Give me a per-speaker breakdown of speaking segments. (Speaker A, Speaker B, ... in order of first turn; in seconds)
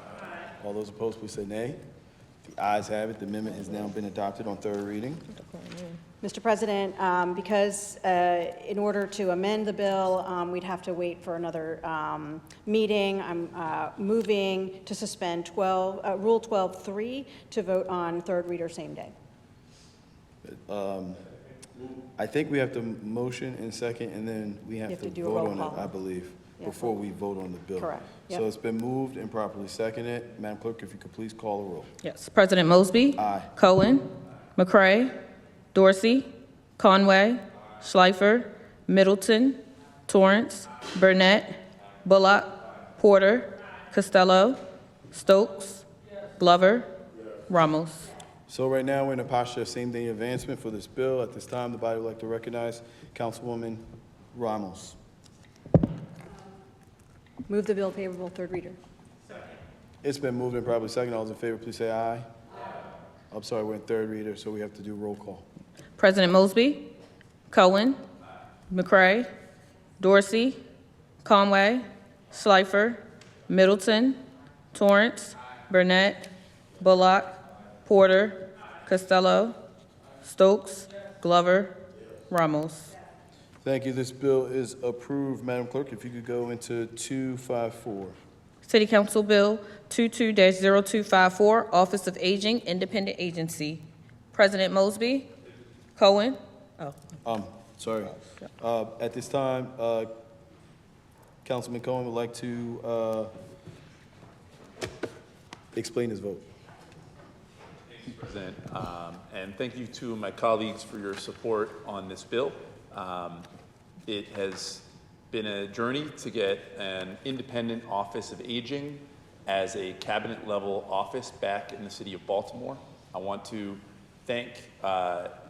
Speaker A: 0.6-1.8, 2.5-5.3, 20.4-21.2, 22.2-31.9, 33.2-33.5, 48.5-55.0, 60.0-62.3, 63.3-65.5, 83.6-88.2, 97.2-100.1, 101.4-103.3, 105.7-106.4
Speaker B: 5.5-5.9, 32.0-35.1, 35.7-44.6, 45.1-45.8, 46.4-46.9, 47.5-48.1, 66.0-66.8, 67.5-68.0, 68.7-69.3, 70.0-70.6, 71.2-74.2, 74.7-76.3, 76.8-79.5, 80.2-81.8, 82.3-82.9, 88.7-95.3, 96.0-97.0
Speaker C: 6.2-19.1, 24.9-25.9, 26.6-26.9, 27.8-28.4, 57.5-58.8
Speaker D: 108.0-113.5, 114.1-125.3